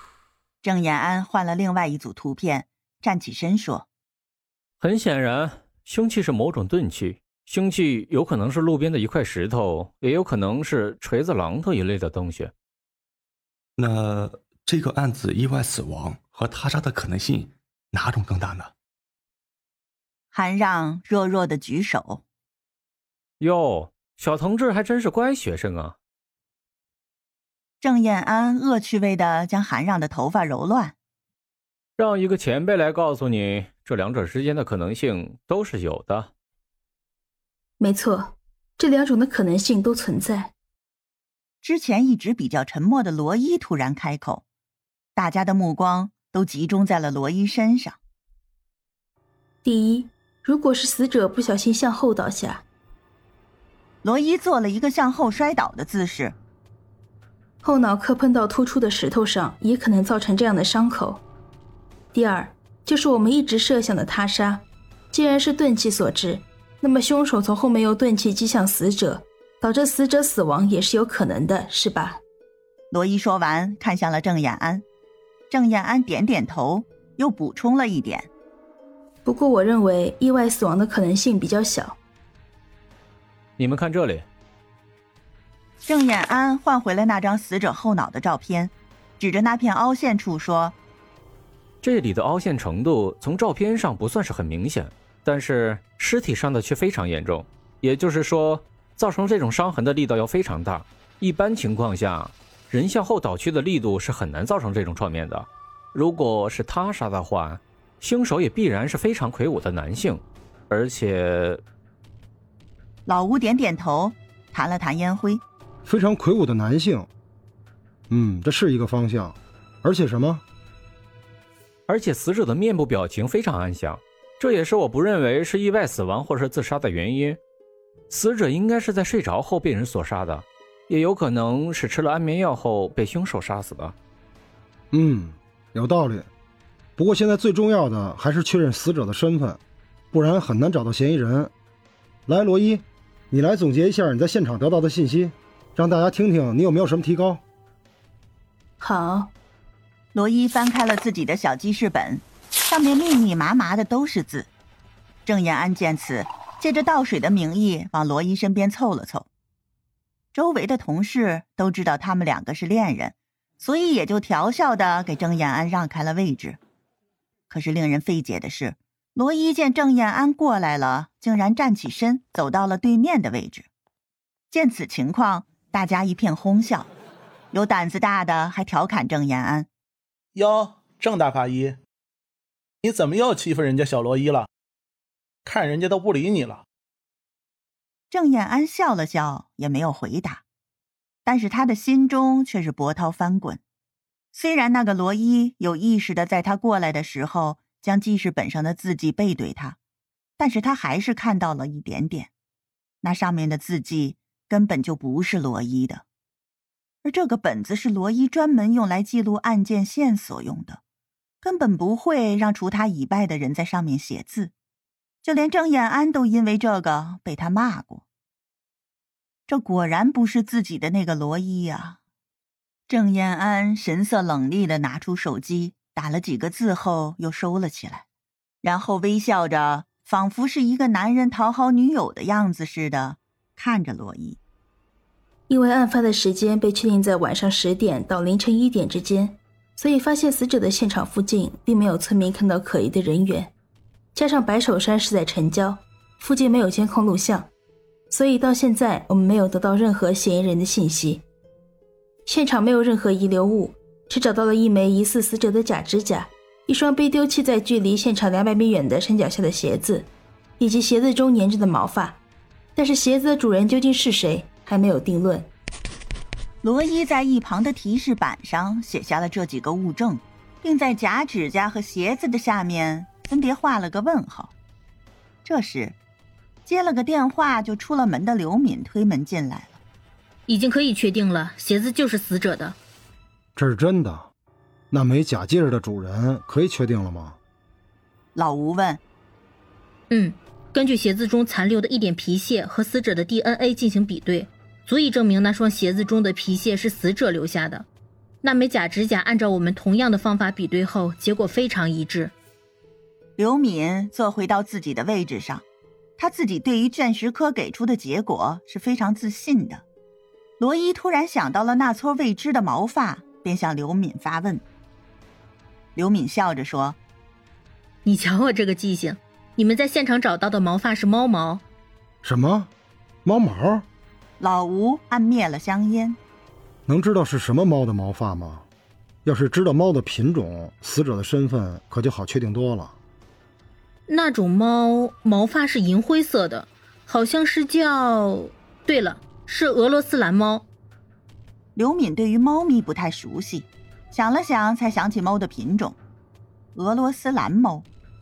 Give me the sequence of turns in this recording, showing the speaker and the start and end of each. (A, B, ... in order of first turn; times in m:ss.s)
0:00.6-0:03.9 A
0:04.8-0:12.5 B
0:13.8-0:18.7 C
0:20.3-0:22.2 A
0:23.4-0:26.0 B
0:27.8-0:30.9 A
0:32.0-0:36.3 B
0:37.8-0:40.5 D
0:41.6-0:44.4 A
0:45.2-0:48.0 A
0:49.6-0:52.6 D
0:54.0-0:56.4 A
0:57.6-1:01.2 D
1:02.1-1:12.2 D
1:12.9-1:14.8 A
1:15.5-1:18.3 A
1:19.2-1:22.0 D
1:23.6-1:24.3 B
1:25.8-1:30.8 A
1:31.8-1:51.6 B
1:53.0-1:55.4 A
1:55.8-1:57.1 E
1:58.1-2:00.4 E
2:01.9-2:07.4 B
2:08.1-2:13.9 B
2:14.9-2:16.3 E
2:17.0-2:19.6 E
2:20.1-2:21.5 E
2:22.3-2:27.4 E
2:28.8-2:29.3 D
2:30.1-2:34.5 A
2:35.2-2:39.3 A
2:40.3-2:46.6 A
2:47.5-2:53.7 A
2:54.5-2:56.9 A
2:57.5-2:59.7 A
3:00.3-3:01.8 F
3:02.8-3:04.5 F
3:05.4-3:06.6 F
3:08.1-3:10.4 A
3:11.2-3:13.6 A
3:14.3-3:19.8 A
3:20.4-3:22.3 A
3:23.0-3:26.0 A
3:27.0-3:30.8 A
3:31.4-3:34.5 A
3:35.2-3:38.0 A
3:39.5-3:42.0 A
3:42.9-3:48.0 A
3:48.6-3:54.4 A
3:55.5-4:03.5 D
4:04.1-4:07.5 D
4:08.1-4:11.2 D
4:12.2-4:22.2 D
4:22.8-4:25.5 D
4:26.6-4:34.5 A
4:35.4-4:36.0 A
4:36.6-4:39.8 A
4:40.5-4:42.8 G
4:43.6-4:44.3 E
4:44.9-4:47.4 E
4:48.4-4:49.0 A
4:50.1-4:57.9 G
4:58.4-5:02.3 G
5:03.4-5:05.6 A
5:06.2-5:09.8 A
5:10.6-5:14.6 A
5:16.0-5:17.0 A
5:18.0-5:21.6 G
5:22.2-5:22.7 E
5:23.2-5:23.8 E
5:24.4-5:26.2 A
5:26.9-5:28.6 E
5:29.2-5:33.0 E
5:34.1-5:40.7 G
5:41.8-5:46.0 A
5:46.8-5:47.9 A